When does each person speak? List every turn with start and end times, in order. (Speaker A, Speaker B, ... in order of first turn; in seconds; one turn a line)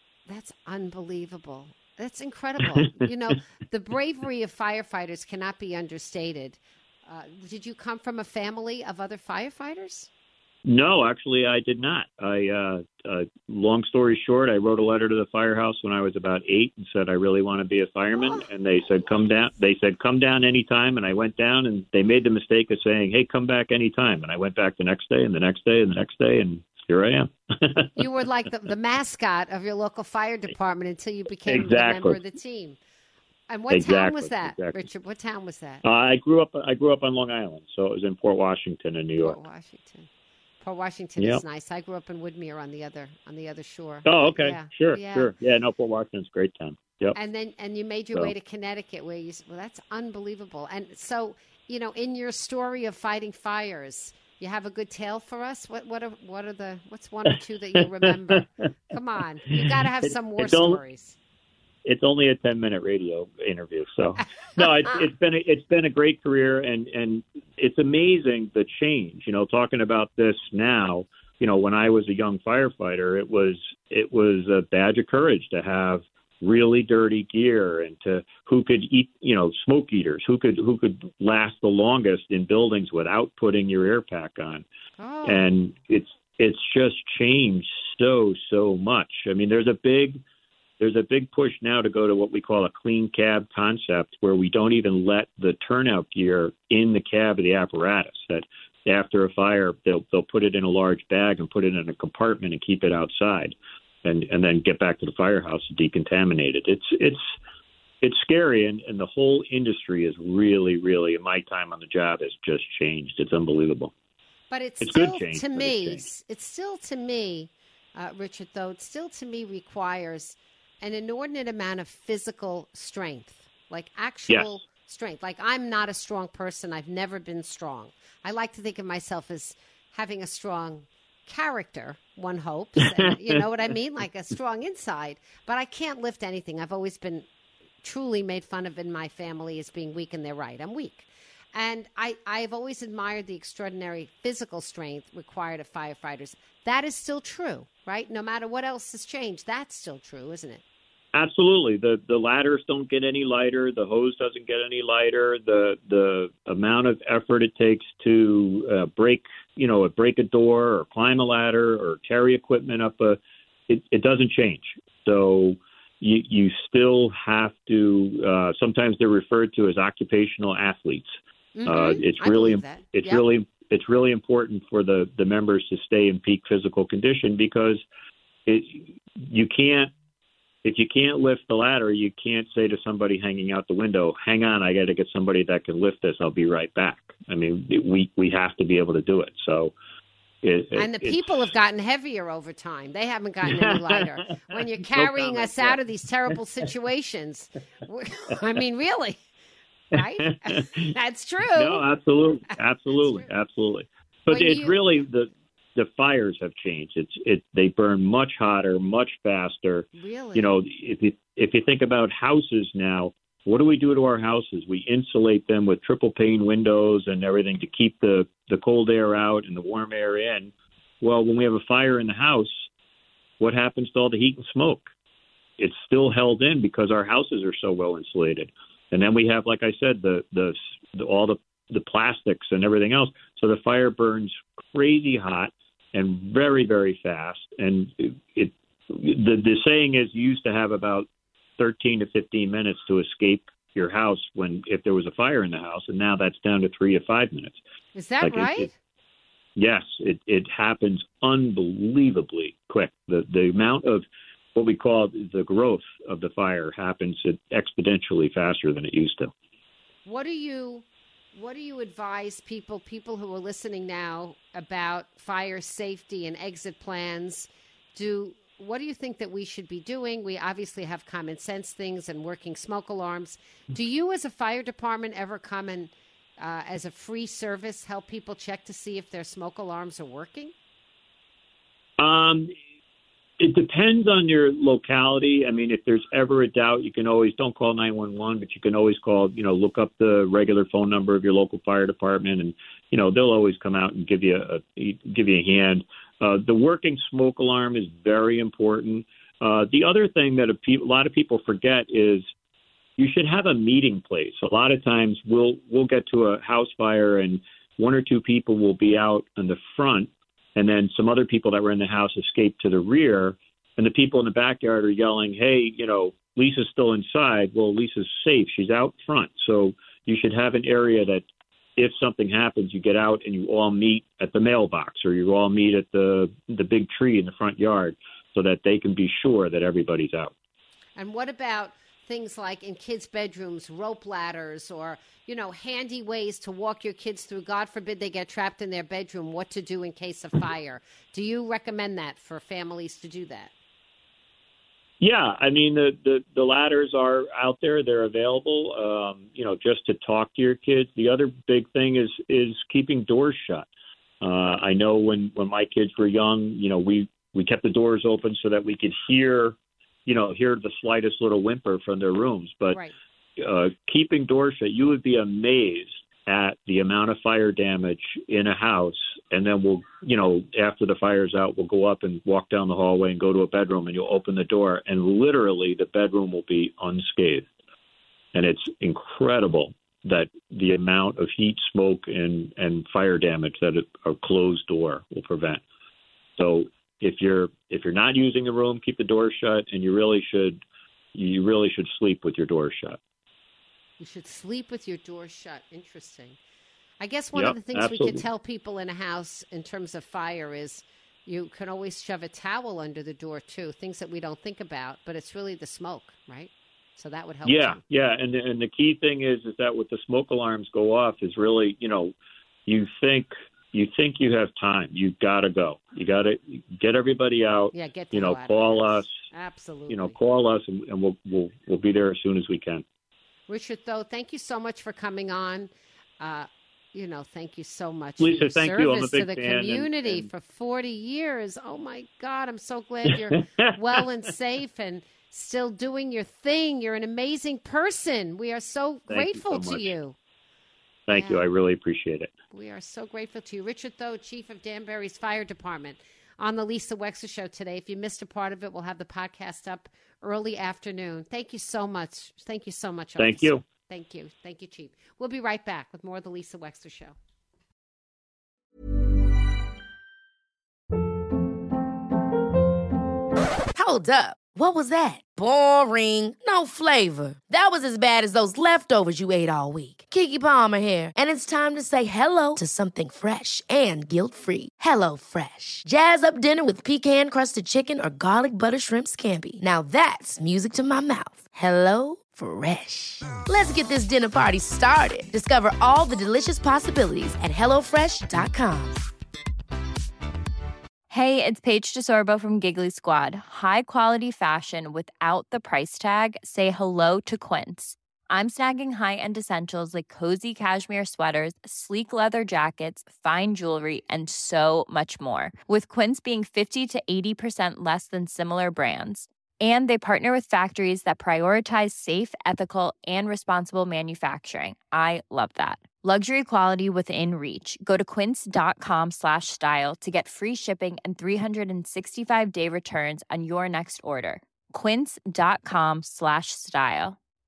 Speaker A: 0.3-10.1
Speaker B: 10.7-28.0
Speaker A: 28.0-32.8
Speaker B: 31.5-32.2
Speaker A: 33.5-35.8
Speaker B: 33.7-34.8
Speaker B: 35.8-39.4
Speaker A: 39.2-40.1
Speaker A: 40.6-45.3
Speaker B: 41.2-41.4
Speaker B: 44.0-47.2
Speaker A: 47.1-61.2
Speaker B: 58.0-58.5
Speaker B: 59.5-60.8
Speaker B: 61.9-84.7
Speaker A: 85.0-85.5
Speaker B: 85.2-90.2
Speaker B: 90.8-107.3
Speaker B: 108.0-113.9
Speaker A: 114.5-137.3
Speaker B: 114.8-116.0
Speaker B: 132.8-133.4
Speaker A: 137.8-150.6
Speaker B: 151.1-163.2
Speaker B: 163.7-171.1
Speaker A: 171.6-173.2
Speaker B: 171.7-177.8
Speaker B: 178.5-179.9
Speaker B: 180.6-189.7
Speaker B: 190.4-191.3
Speaker A: 190.7-199.2
Speaker B: 193.5-195.8
Speaker A: 199.9-201.9
Speaker B: 200.0-200.9
Speaker B: 201.6-222.7
Speaker A: 202.9-203.2
Speaker A: 204.3-205.0
Speaker A: 210.0-210.5
Speaker B: 223.4-224.9
Speaker B: 225.6-241.1
Speaker B: 241.6-247.6
Speaker A: 247.9-248.7
Speaker B: 248.2-248.7
Speaker B: 249.6-254.0
Speaker B: 254.5-259.3
Speaker A: 260.0-280.5
Speaker B: 282.0-282.5
Speaker B: 283.4-302.2
Speaker B: 303.0-321.2
Speaker B: 321.8-330.3
Speaker A: 331.0-343.5
Speaker B: 345.0-353.7
Speaker B: 354.2-362.8
Speaker B: 363.4-377.5
Speaker B: 378.3-385.6
Speaker B: 386.4-390.6
Speaker B: 391.1-393.0
Speaker A: 394.0-396.4
Speaker A: 397.0-407.8
Speaker B: 397.4-398.2
Speaker B: 407.4-412.1
Speaker B: 412.7-419.1
Speaker A: 417.7-420.2
Speaker B: 419.9-422.8
Speaker A: 423.5-440.2
Speaker B: 428.2-430.3
Speaker B: 433.6-434.0
Speaker B: 439.1-439.9
Speaker B: 441.1-442.3
Speaker A: 441.1-441.4
Speaker A: 442.5-457.1
Speaker B: 453.2-453.6
Speaker C: 463.7-489.0
Speaker D: 491.1-527.2